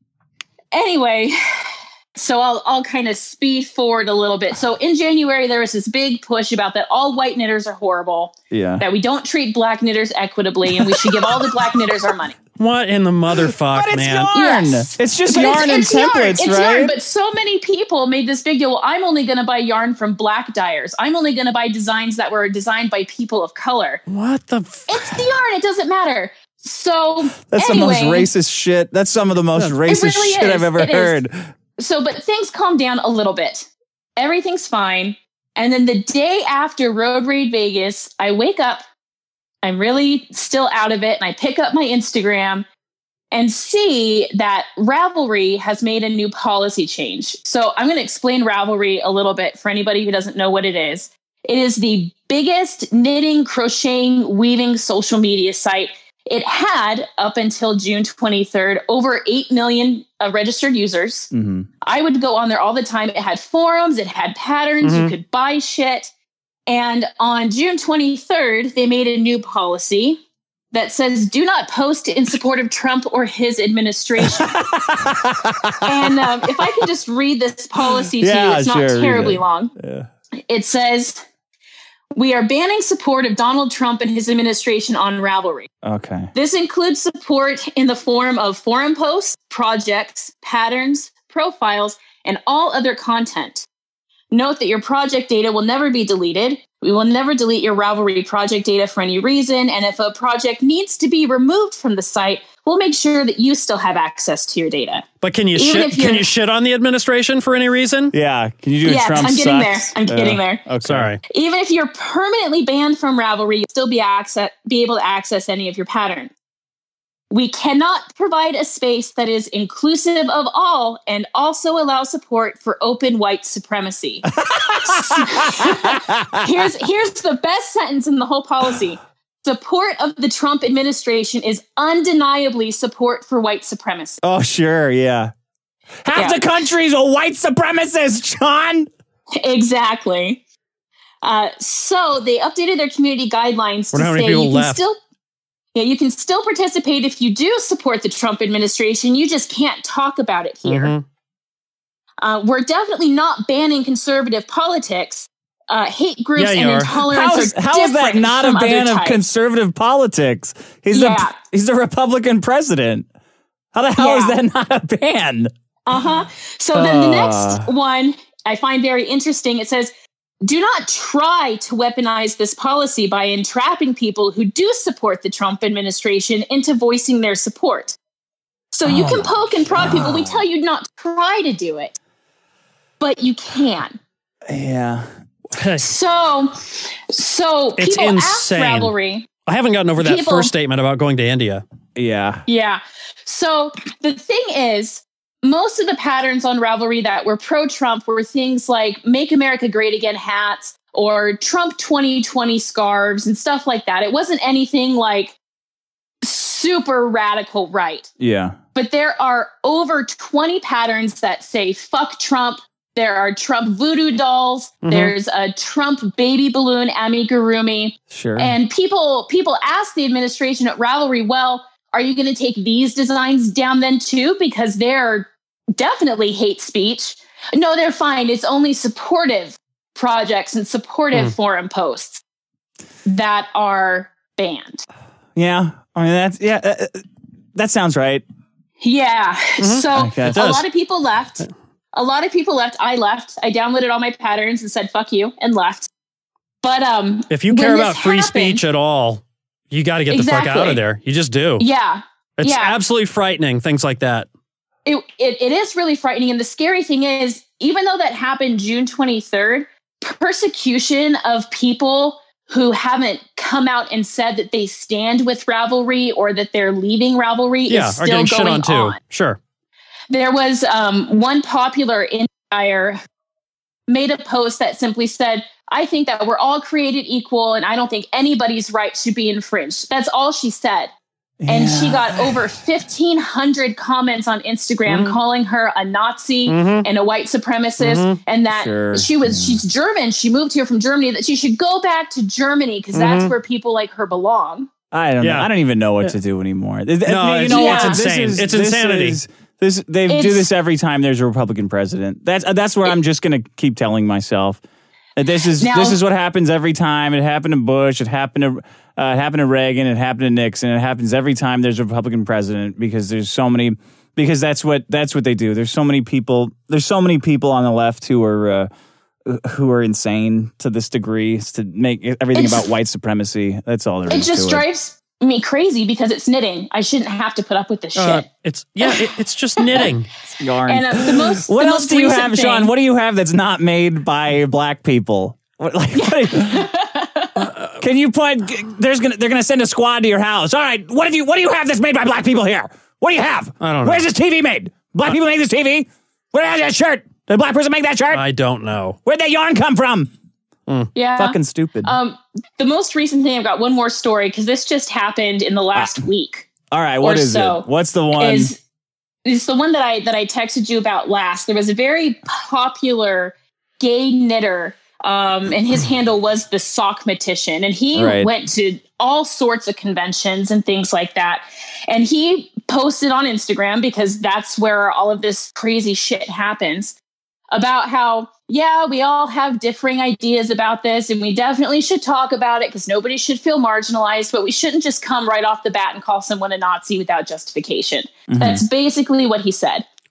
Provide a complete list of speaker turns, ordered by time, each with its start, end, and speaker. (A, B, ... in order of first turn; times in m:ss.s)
0:00.7-0:12.4 A
0:08.5-0:08.8 B
0:10.8-0:11.5 B
0:12.6-0:14.3 C
0:13.6-0:17.0 B
0:14.3-0:24.0 A
0:24.1-0:25.2 C
0:24.9-0:28.3 A
0:27.5-0:31.5 B
0:29.8-0:31.2 A
0:31.8-0:38.8 A
0:39.6-0:42.6 A
0:43.3-1:01.3 A
1:01.3-1:01.7 B
1:01.8-1:06.1 A
1:04.8-1:05.1 C
1:06.7-1:10.2 A
1:10.7-1:14.5 A
1:14.4-1:16.2 B
1:15.8-1:19.7 A
1:18.1-1:20.1 B
1:20.5-1:21.2 A
1:22.2-1:25.7 A
1:25.8-1:26.3 B
1:26.3-1:33.7 A
1:34.3-1:46.3 A
1:45.2-1:48.1 C
1:48.1-1:51.1 B
1:48.8-1:50.6 A
1:50.8-1:51.2 C
1:51.2-1:56.3 A
1:57.3-2:14.2 A
2:04.5-2:05.9 B
2:14.2-2:15.3 B
2:16.0-2:18.9 B
2:16.1-2:16.5 A
2:19.4-2:20.4 A
2:21.2-2:25.0 A
2:23.9-2:24.8 C
2:25.7-2:30.9 A
2:30.6-2:31.0 C
2:32.2-2:39.2 A
2:36.4-2:37.0 C
2:37.1-2:43.0 B
2:40.9-2:41.4 A
2:43.7-2:45.5 B
2:44.0-2:44.4 A
2:45.8-2:49.9 A
2:46.7-2:47.6 B
2:50.4-2:58.0 A
2:58.7-3:01.9 A
2:58.8-3:00.4 B
3:03.0-3:04.0 A
3:04.5-3:05.1 B
3:05.5-3:05.9 C
3:05.8-3:09.3 A
3:07.8-3:08.9 C
3:09.5-3:11.6 C
3:10.0-3:10.5 A
3:12.0-3:12.4 B
3:12.4-3:25.4 A
3:26.2-3:28.1 A
3:28.2-3:28.6 B
3:28.7-3:52.2 A
3:34.8-3:35.1 C
3:38.1-3:38.5 B
3:53.0-3:54.8 A
3:55.4-3:57.0 B
3:57.6-3:58.2 B
3:58.8-4:05.9 A
3:59.6-4:00.6 C
3:59.9-4:00.4 B
4:06.6-4:08.6 A
4:07.3-4:11.6 C
4:10.1-4:10.8 A
4:11.6-4:12.8 A
4:12.4-4:14.3 C
4:14.8-4:29.0 A
4:27.7-4:29.4 C
4:30.1-4:33.0 A
4:33.9-4:40.9 A
4:41.4-4:42.4 B
4:41.5-4:54.7 A
4:44.8-4:45.2 C
4:46.4-4:46.8 C
4:47.8-4:48.2 C
4:48.5-4:49.6 B
4:52.9-4:53.3 C
4:54.9-5:04.6 B
4:55.2-4:55.5 C
4:57.0-4:59.2 C
4:57.5-4:58.0 A
5:00.1-5:00.5 A
5:05.2-5:18.7 B
5:05.6-5:06.0 A
5:19.3-5:24.6 B
5:22.3-5:22.7 A
5:24.1-5:28.2 A
5:27.9-5:30.1 C
5:29.6-5:29.9 A
5:30.4-5:36.6 B
5:30.6-5:32.7 A
5:35.9-5:37.5 A
5:37.4-5:37.7 C
5:37.8-5:48.2 B
5:43.6-5:44.1 C
5:48.1-5:49.0 C
5:49.0-5:50.1 B
5:50.9-5:56.5 A
5:51.2-5:51.9 B
5:55.7-5:56.0 B
5:56.7-5:58.5 B
5:57.0-5:58.6 A
5:59.2-6:17.0 A
6:07.9-6:08.3 B
6:17.5-6:29.8 A
6:28.3-6:28.6 B